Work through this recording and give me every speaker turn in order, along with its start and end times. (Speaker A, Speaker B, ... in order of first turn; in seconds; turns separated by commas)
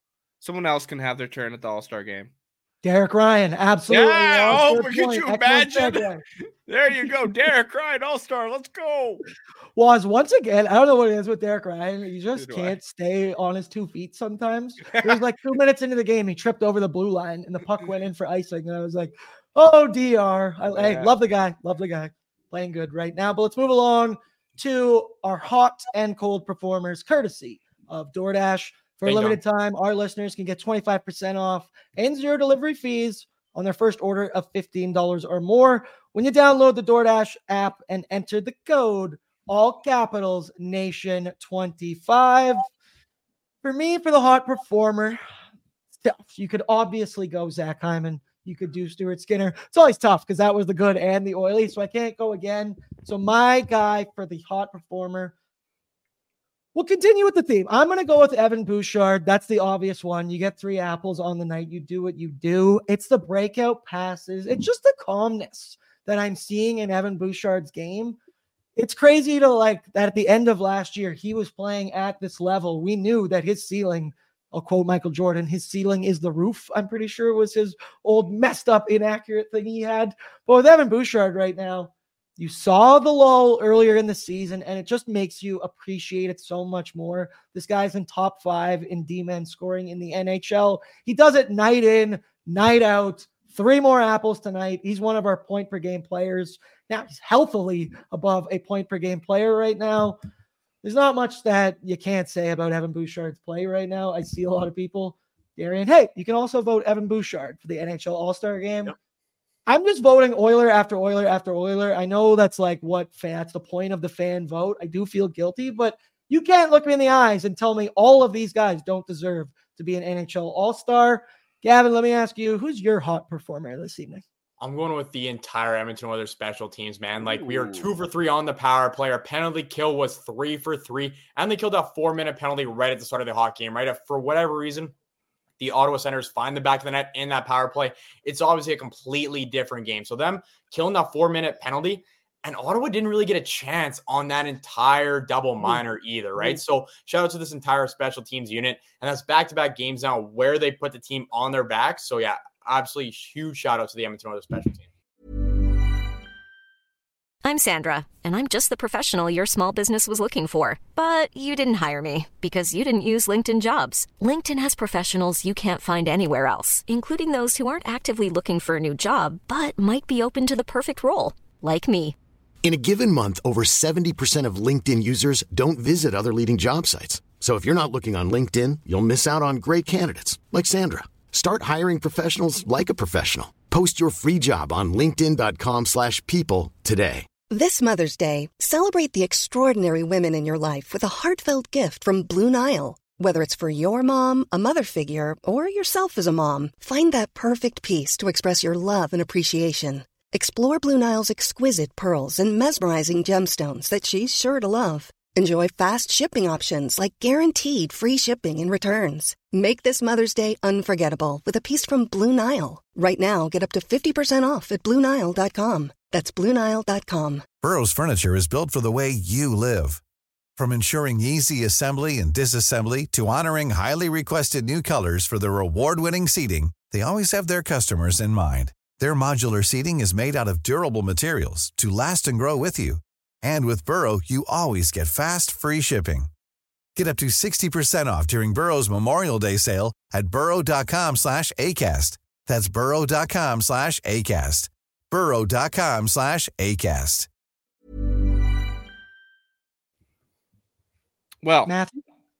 Speaker A: 0.4-2.3, Speaker B: 2.8-6.2, Speaker A: 3.9-6.1, Speaker A: 6.7-9.2, Speaker B: 9.8-42.7, Speaker A: 12.3-12.7, Speaker A: 14.9-15.2, Speaker A: 20.7-21.1, Speaker C: 29.0-29.4, Speaker B: 43.6-45.2, Speaker B: 46.0-55.3, Speaker B: 56.7-68.2, Speaker B: 68.8-100.2, Speaker B: 100.8-108.9, Speaker B: 109.7-124.2, Speaker C: 124.6-134.9, Speaker C: 135.6-154.9, Speaker D: 157.4-172.2, Speaker E: 172.6-187.3, Speaker F: 187.5-217.5, Speaker G: 217.6-220.0, Speaker G: 220.6-236.3, Speaker G: 236.9-247.3, Speaker A: 251.4-251.7, Speaker B: 251.7-252.0